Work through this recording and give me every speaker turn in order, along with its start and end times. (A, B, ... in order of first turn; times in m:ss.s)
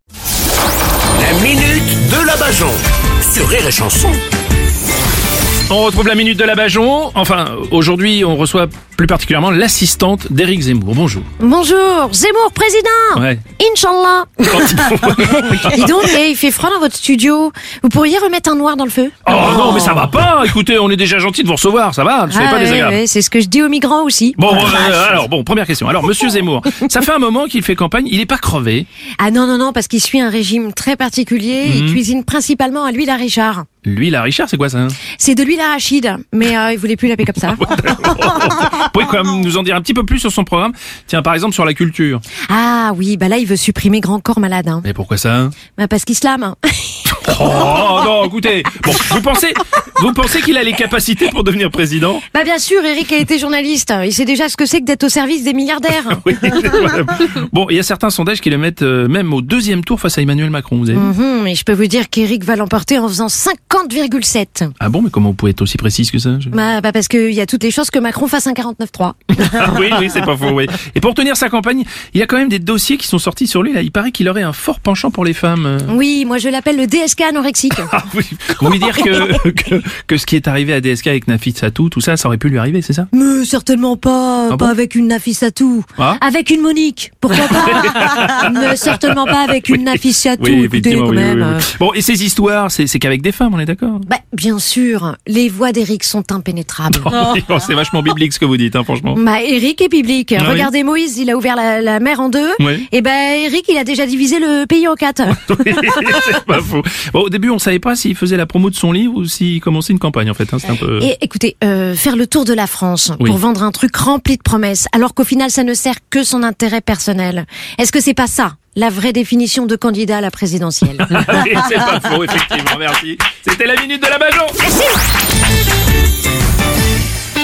0:01.1-0:04.2 A
0:05.7-0:11.3 B
0:11.4-0:19.8 C
0:13.1-0:13.4 B
0:14.5-0:16.1 B
0:19.2-0:23.0 B
0:22.3-0:25.2 C
0:24.4-0:28.9 B
0:29.2-0:33.7 C
0:31.6-0:32.0 B
0:33.8-0:35.0 B
0:35.1-0:37.6 C
0:37.4-0:42.2 B
0:42.5-0:44.9 C
0:44.8-0:45.6 B
0:45.6-0:47.1 C
0:47.1-0:52.2 B
0:52.3-0:56.2 C
0:56.1-1:01.1 B
1:00.9-1:04.7 C
1:04.8-1:06.5 B
1:06.5-1:09.3 C
1:09.3-1:15.9 B
1:15.9-1:17.9 C
1:17.8-1:23.1 B
1:23.1-1:31.7 C
1:24.5-1:24.7 B
1:27.3-1:34.0 B
1:34.0-1:37.2 C
1:36.9-1:39.2 B
1:39.1-1:45.4 C
1:40.4-1:40.7 B
1:42.6-1:42.9 B
1:45.4-1:51.1 B
1:51.0-2:01.1 C
2:01.0-2:04.6 B